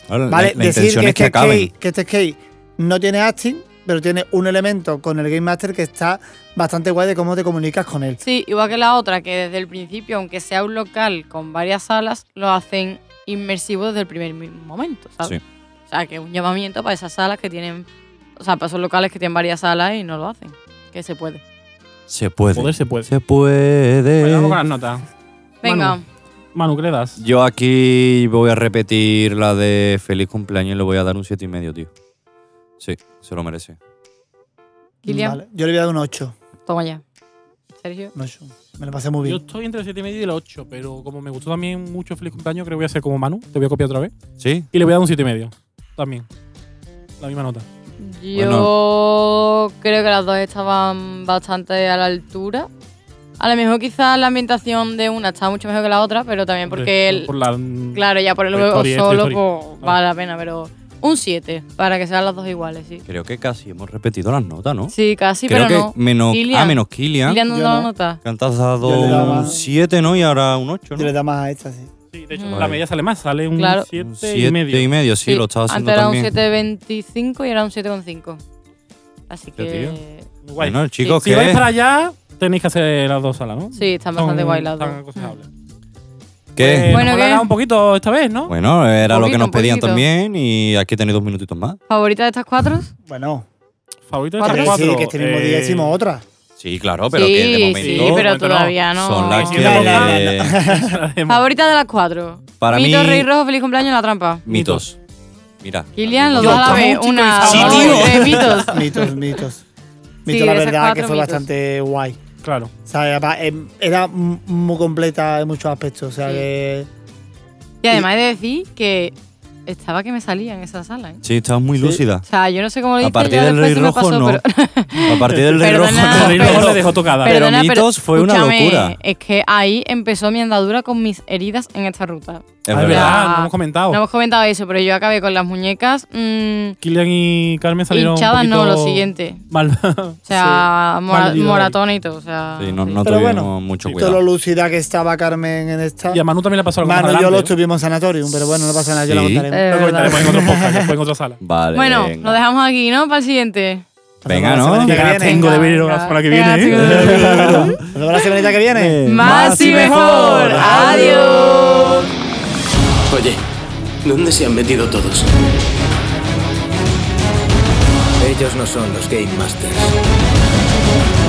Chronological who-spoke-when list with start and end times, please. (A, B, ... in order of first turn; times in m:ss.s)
0:00.1-0:01.7 A
0:00.3-0:08.2 B
0:08.2-0:15.4 C
0:15.9-0:21.4 C
0:22.1-0:24.6 A
0:22.5-0:23.1 D
0:24.2-0:25.1 D
0:25.6-0:26.0 C
0:25.6-0:26.0 D
0:26.6-0:27.2 D
0:27.2-0:31.9 A
0:32.8-0:33.8 A
0:35.0-0:35.4 C
0:35.0-0:36.4 B
0:36.7-0:37.0 C
0:37.8-0:38.1 C
0:38.2-0:39.4 B
0:39.2-0:44.1 D
0:44.4-0:44.7 A
0:44.7-0:46.3 D
0:47.2-0:47.7 D
0:48.0-0:52.7 C
0:48.4-0:48.7 A
0:53.4-0:57.3 C
0:56.7-0:58.0 D
0:58.0-1:03.0 C
0:58.5-1:00.0 D
1:03.1-1:04.9 A
1:04.9-1:08.2 C
1:05.5-1:07.4 A
1:07.5-1:07.9 B
1:08.2-1:11.1 A
1:08.8-1:09.7 B
1:09.2-1:09.5 D
1:11.0-1:11.9 B
1:12.1-1:14.9 D
1:12.3-1:12.7 C
1:12.5-1:12.8 A
1:13.6-1:13.9 C
1:14.0-1:16.3 A
1:15.2-1:18.4 C
1:19.3-1:20.3 C
1:19.6-1:20.0 A
1:20.4-1:25.5 D
1:20.6-1:21.6 A
1:23.7-1:25.4 C
1:26.6-1:27.0 A
1:26.6-1:28.5 D
1:26.9-1:27.5 C
1:28.5-1:31.8 A
1:29.1-1:30.1 C
1:31.9-1:32.9 C
1:33.1-1:33.5 B
1:34.1-1:36.0 D
1:34.4-1:34.8 C
1:34.4-1:36.2 B
1:36.6-1:38.2 A
1:37.1-1:40.1 C
1:37.8-1:38.8 D
1:39.0-1:40.6 A
1:39.3-1:41.5 D
1:39.5-1:41.0 B
1:41.3-1:44.4 C
1:42.6-1:43.3 A
1:44.5-1:45.0 A
1:44.5-1:44.8 D
1:45.6-1:46.9 A
1:46.0-1:49.1 C
1:46.4-1:48.7 D
1:47.4-1:48.4 A
1:47.6-1:49.6 B
1:50.3-1:52.2 B
1:50.3-1:51.5 C
1:52.4-1:52.7 D
1:52.9-1:56.9 B
1:57.8-1:59.1 C
1:59.7-2:01.2 C
2:01.2-2:02.2 A
2:02.3-2:16.8 C
2:03.0-2:04.4 A
2:05.0-2:09.0 A
2:05.3-2:07.4 D
2:12.7-2:13.2 A
2:12.7-2:14.0 D
2:16.8-2:21.8 D
2:17.9-2:19.4 C
2:20.3-2:23.0 C
2:22.6-2:24.2 A
2:23.0-2:26.2 B
2:26.1-2:27.5 D
2:26.8-2:30.9 B
2:29.0-2:29.5 A
2:29.5-2:30.3 C
2:29.7-2:31.4 D
2:31.4-2:32.4 A
2:31.7-2:33.8 C
2:34.2-2:35.5 B
2:34.3-2:35.1 A
2:34.8-2:37.8 D
2:35.2-2:37.8 C
2:36.7-2:37.9 A
2:37.3-2:39.0 B
2:38.7-2:41.0 A
2:39.0-2:42.1 C
2:39.2-2:41.4 D
2:40.6-2:41.1 B
2:43.1-2:43.4 E
2:44.0-2:45.4 E
2:48.2-2:50.0 E